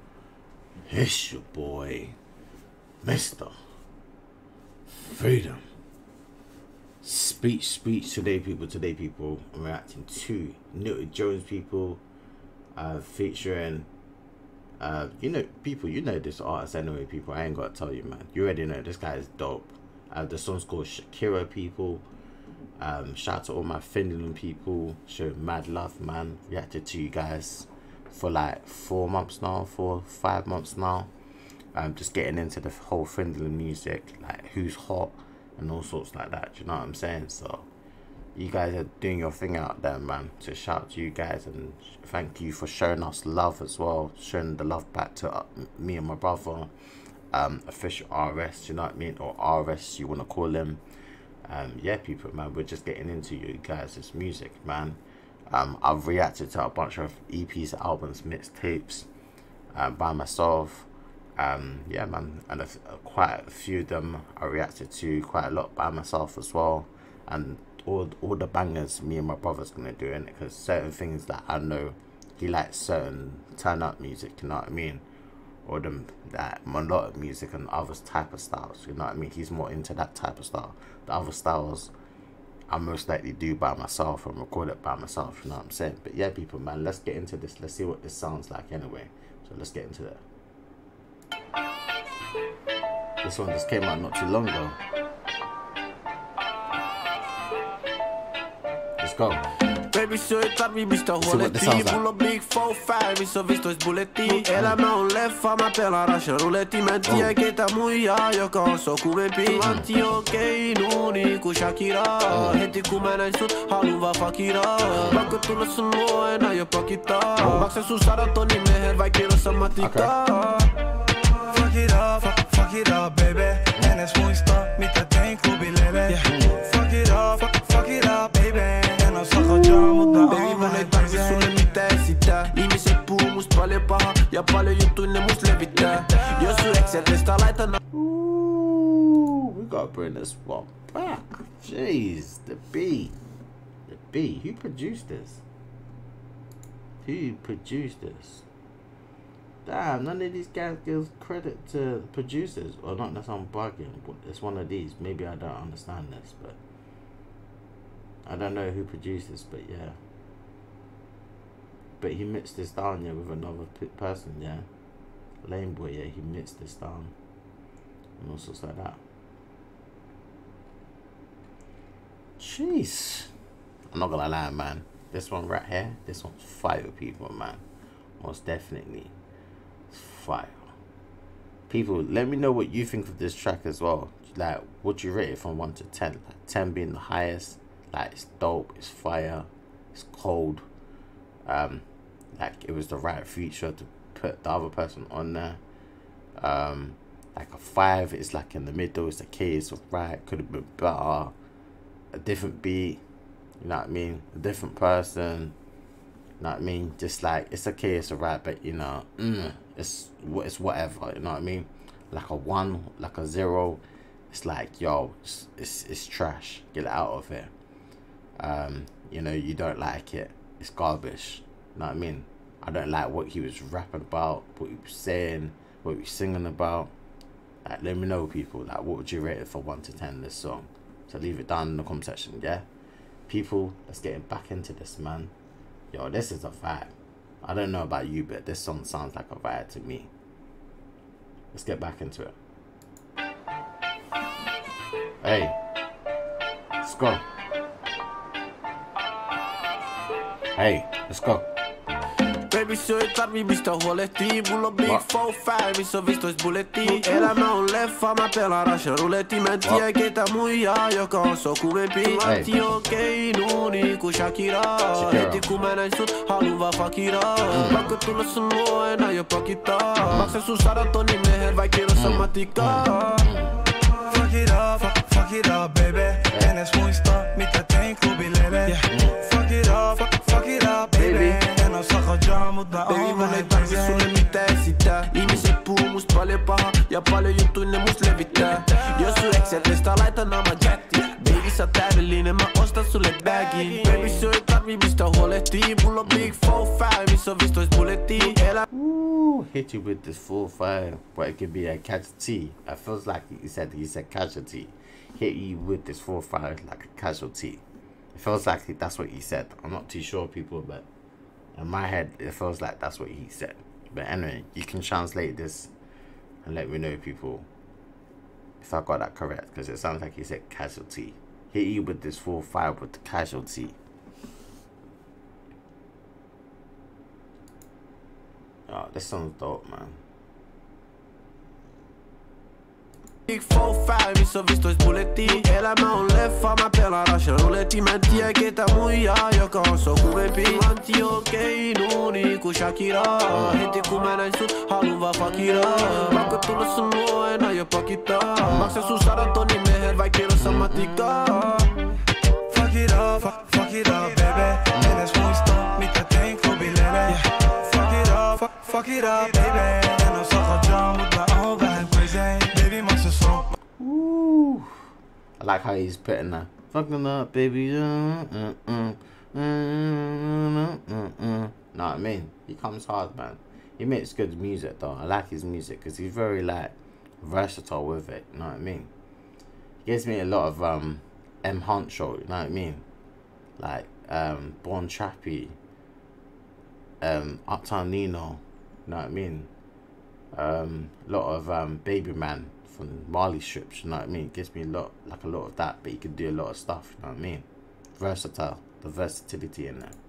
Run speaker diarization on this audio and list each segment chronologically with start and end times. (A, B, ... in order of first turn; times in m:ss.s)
0:00.9-0:02.2 A
0:03.0-0:03.5 A
0:04.9-0:05.6 A
0:07.0-0:12.0 A
0:12.8-0:13.9 A
0:14.8-0:22.0 A
0:22.8-0:31.1 A
0:31.7-0:37.7 A
0:38.4-0:46.7 A
0:47.3-0:50.8 A
0:51.4-0:55.0 A
0:55.5-0:59.1 A
0:59.7-1:15.0 A
1:15.7-1:21.9 A
1:22.7-1:30.2 A
1:33.2-1:34.8 A
1:39.0-1:39.4 A
1:39.8-2:00.7 B
1:41.2-1:42.0 A
1:44.5-1:44.8 A
1:47.0-1:47.3 A
1:49.6-1:49.9 A
1:52.3-1:52.6 A
1:54.9-1:55.3 A
1:57.4-1:57.7 A
1:59.8-2:00.1 A
2:01.3-2:11.7 C
2:06.2-2:06.6 A
2:10.1-2:17.8 B
2:17.9-2:23.1 A
2:23.9-2:25.4 A
2:27.0-2:28.4 A
2:29.6-2:36.6 A
2:38.2-2:40.0 A
2:42.0-2:44.7 A
2:45.4-2:47.1 A
2:48.2-2:49.0 A
2:52.4-2:53.3 A
2:53.9-2:57.6 A
2:58.2-2:59.1 A
2:59.9-3:00.7 A
3:01.7-3:10.6 A
3:11.4-3:15.6 A
3:16.4-3:21.3 A
3:22.1-3:23.0 A
3:23.6-3:25.5 A
3:26.4-3:37.5 A
3:38.4-3:46.9 A
3:47.6-3:52.6 A
3:53.3-3:55.3 A
3:55.9-4:00.1 A
4:01.5-4:02.3 A
4:05.2-4:05.6 A
4:06.8-4:07.2 A
4:10.5-4:11.5 A
4:12.5-4:33.2 B
4:22.2-4:22.5 A
4:24.9-4:25.5 A
4:27.5-4:27.9 A
4:30.1-4:30.4 A
4:31.9-4:33.6 A
4:33.9-4:44.3 C
4:38.8-4:39.2 A
4:41.0-4:41.4 B
4:42.7-4:58.6 B
4:45.2-4:45.5 A
4:56.0-4:56.4 A
4:58.7-5:07.6 A
5:08.1-5:10.9 A
5:11.5-5:15.7 A
5:16.4-5:17.5 A
5:18.6-5:23.8 A
5:28.7-5:30.0 A
5:33.3-5:51.8 B
5:43.3-5:43.6 A
5:48.5-5:48.8 A
5:50.4-5:51.3 A
5:52.5-6:03.5 C
5:54.7-5:55.0 A
6:03.8-6:04.7 A
6:05.4-6:18.9 A
6:19.8-6:22.8 A
6:23.6-6:25.6 A
6:27.0-6:29.5 A
6:30.3-6:37.4 A
6:38.0-6:40.0 A